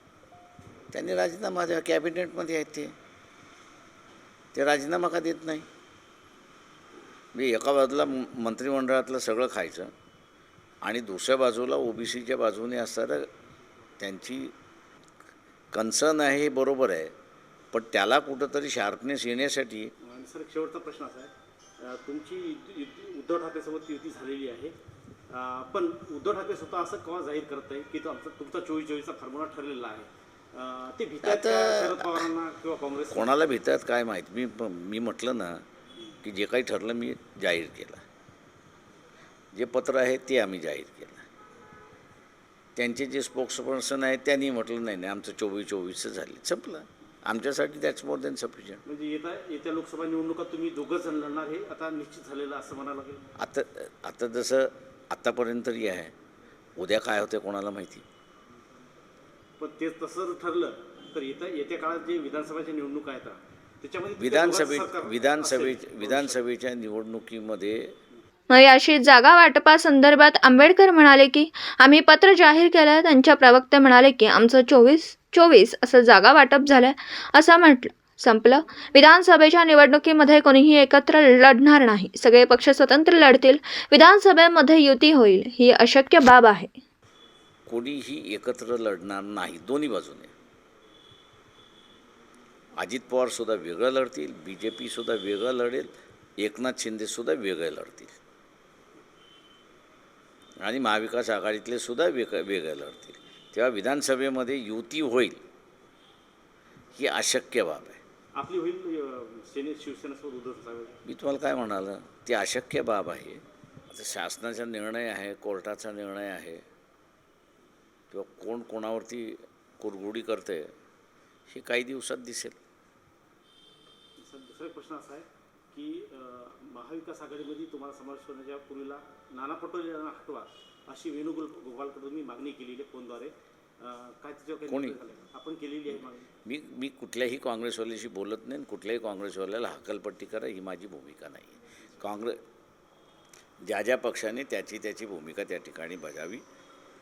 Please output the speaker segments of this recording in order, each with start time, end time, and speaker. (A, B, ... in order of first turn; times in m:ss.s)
0:00.9-0:02.9 A
0:04.5-0:05.7 A
0:07.3-0:09.9 A
0:10.8-0:13.3 A
0:14.0-0:14.5 A
0:15.7-0:17.1 A
0:17.7-0:19.9 A
0:20.0-0:24.7 B
0:25.3-0:33.4 B
0:31.2-0:32.3 A
0:33.1-0:35.6 A
0:36.2-0:38.0 A
0:39.5-0:41.3 A
0:42.8-0:48.8 A
0:48.8-0:53.3 B
0:53.4-0:56.1 A
0:56.8-0:58.0 A
0:59.6-1:06.4 B
1:04.2-1:07.9 A
1:08.5-1:26.7 C
1:27.7-1:30.3 A
1:32.8-1:38.2 A
1:40.6-1:45.4 A
1:47.0-1:48.0 A
1:48.4-1:51.0 B
1:51.0-1:56.6 A
1:58.1-2:00.7 A
2:01.5-2:02.6 A
2:04.2-2:16.3 B
2:14.7-2:15.0 A
2:16.5-2:22.4 A
2:23.6-2:26.4 A